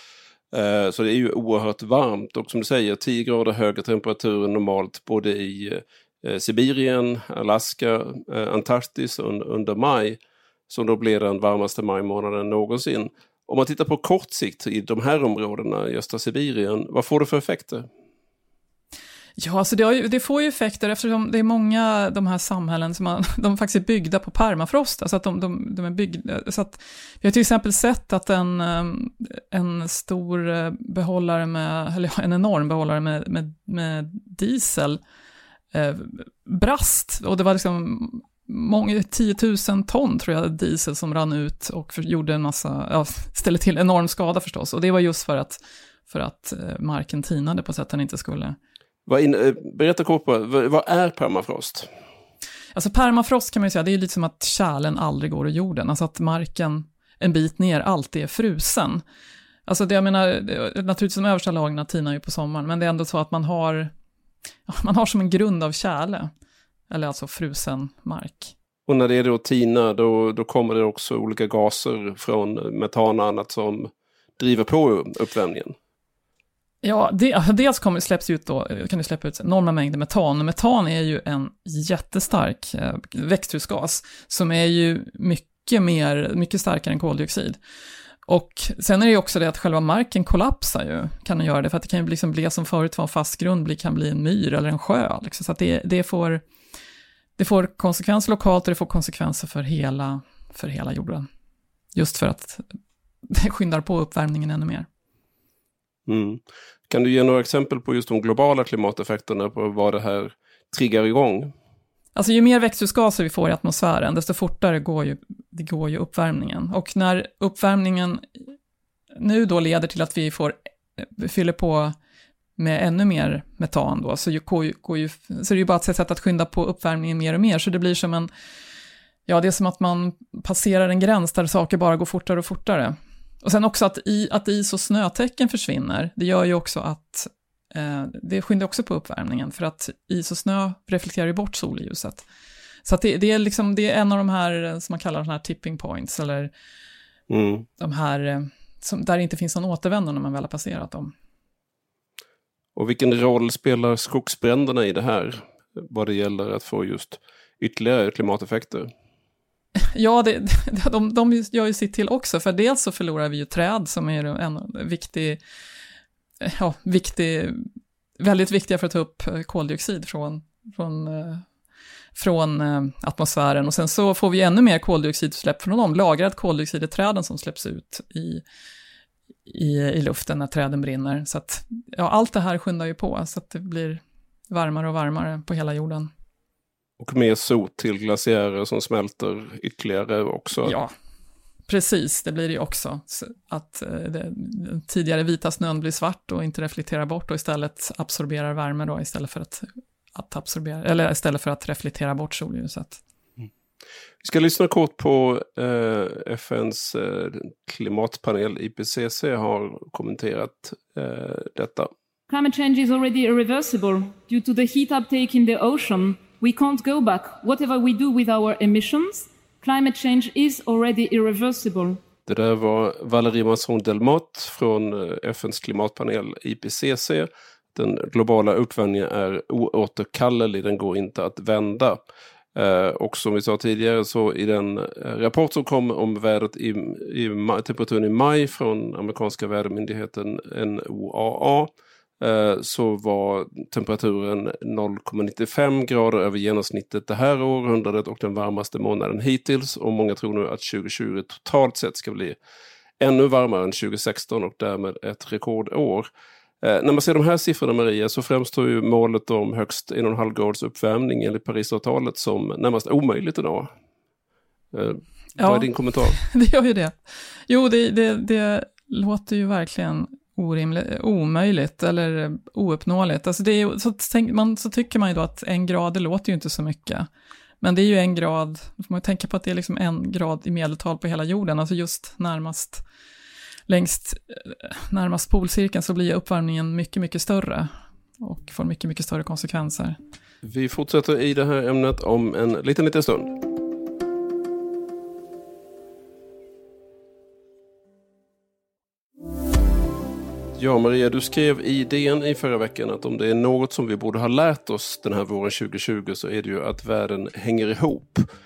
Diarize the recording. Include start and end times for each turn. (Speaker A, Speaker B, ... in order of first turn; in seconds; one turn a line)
Speaker A: 0.5-17.9
Speaker B: 19.4-35.0
Speaker B: 35.7-48.5
Speaker A: 49.1-51.9
Speaker B: 52.7-59.0
Speaker B: 59.6-63.9
Speaker B: 64.7-66.3
Speaker B: 66.9-68.5
Speaker A: 68.9-75.7
Speaker B: 76.8-87.6
Speaker B: 88.2-96.4
Speaker B: 97.4-101.2
Speaker B: 101.9-102.6
Speaker B: 103.3-104.9
Speaker A: 106.1-111.5
Speaker B: 112.1-118.2
Speaker B: 119.1-121.9
Speaker B: 122.6-128.3
Speaker B: 129.2-142.2
Speaker B: 142.8-146.5
Speaker A: 147.3-147.7
Speaker B: 147.8-151.1
Speaker A: 152.8-158.9
Speaker B: 159.9-165.4
Speaker B: 166.4-167.6
Speaker B: 168.2-171.4
Speaker B: 172.1-178.4
Speaker B: 179.4-186.1
Speaker A: 187.0-190.8
Speaker B: 190.6-190.9
Speaker B: 191.7-203.0
Speaker A: 204.2-211.9
Speaker C: 212.3-222.0
Speaker A: 222.3-232.0
Speaker A: 232.5-252.3
Speaker A: 253.0-256.1
Speaker A: 256.6-263.7
Speaker A: 264.7-266.2
Speaker B: 265.4-266.9
Speaker B: 267.5-277.1
Speaker B: 277.6-282.8
Speaker B: 283.7-287.7
Speaker B: 288.2-290.0
Speaker A: 290.4-293.4
Speaker A: 300.6-308.2